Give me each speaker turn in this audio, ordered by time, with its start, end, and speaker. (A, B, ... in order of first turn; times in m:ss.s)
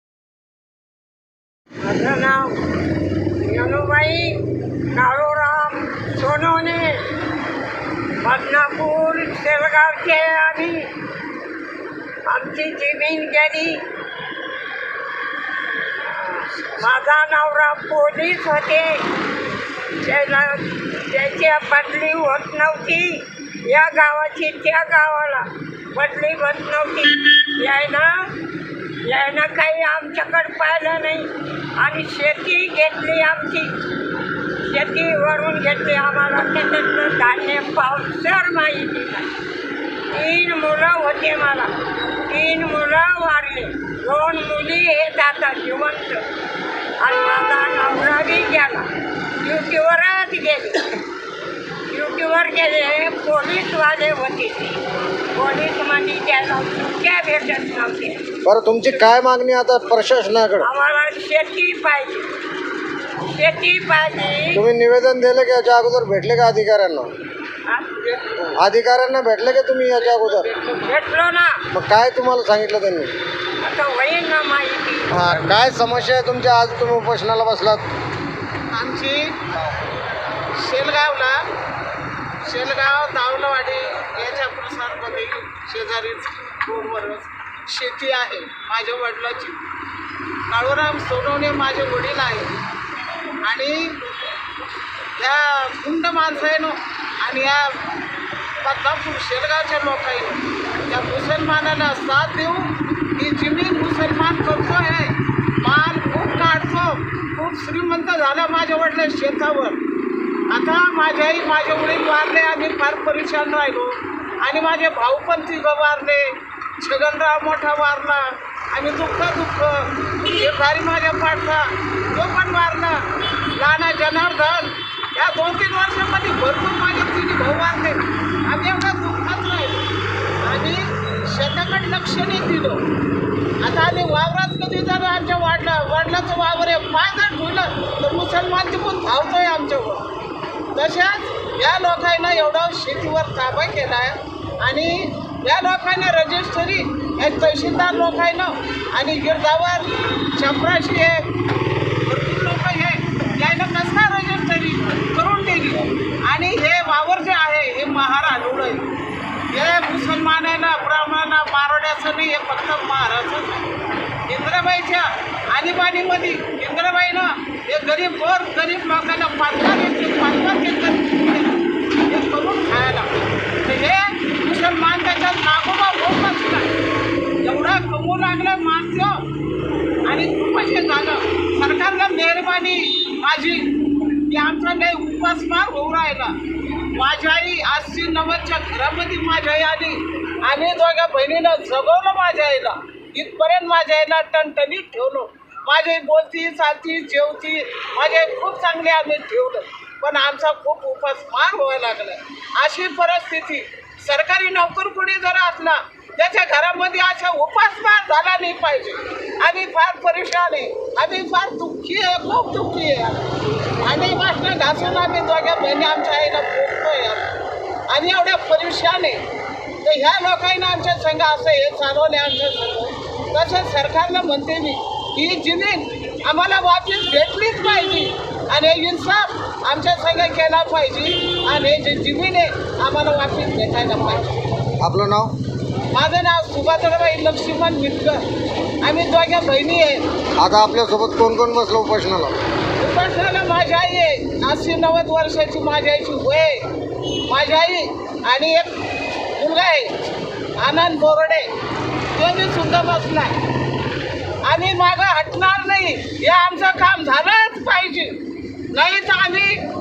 0:01.8-0:02.6 A
0:03.4-0:07.1 A
0:08.2-0:10.9 A
0:12.3-0:13.9 A
0:16.0-0:19.1 A
0:20.0-0:28.3 A
0:29.0-0:33.8 A
0:34.7-0:39.3 A
0:40.1-0:41.7 A
0:42.3-0:46.3 A
0:47.0-0:48.9 A
0:49.4-0:50.9 A
0:51.9-0:54.8 A
0:55.3-0:58.2 A
0:58.4-1:00.7 B
1:00.6-1:02.3 A
1:03.3-1:04.7 A
1:04.5-1:07.1 B
1:07.7-1:08.4 A
1:08.5-1:10.5 B
1:10.6-1:11.6 A
1:11.7-1:13.1 B
1:13.6-1:15.2 A
1:15.1-1:17.9 B
1:18.7-1:19.4 C
1:20.6-1:21.4 C
1:22.4-1:29.6 C
1:30.5-1:32.6 C
1:33.4-1:34.0 C
1:35.2-1:37.8 C
1:38.6-1:49.8 C
1:50.5-2:03.0 C
2:03.6-2:09.8 C
2:10.4-2:12.8 C
2:13.6-2:20.1 C
2:20.7-2:31.3 C
2:32.1-2:38.9 C
2:39.5-2:43.6 C
2:44.3-2:53.1 C
2:53.6-2:56.7 C
2:57.4-2:59.2 C
3:00.1-3:06.4 C
3:06.9-3:37.3 C
3:37.9-3:39.2 C
3:39.8-3:54.5 C
3:54.8-3:55.3 B
3:55.9-3:58.3 C
3:58.8-4:00.0 C
4:00.4-4:02.4 B
4:02.8-4:06.7 C
4:07.3-4:08.7 C
4:09.4-4:10.0 C
4:10.6-4:11.5 C
4:12.1-4:13.4 C
4:14.5-4:18.2 C
4:18.7-4:19.6 C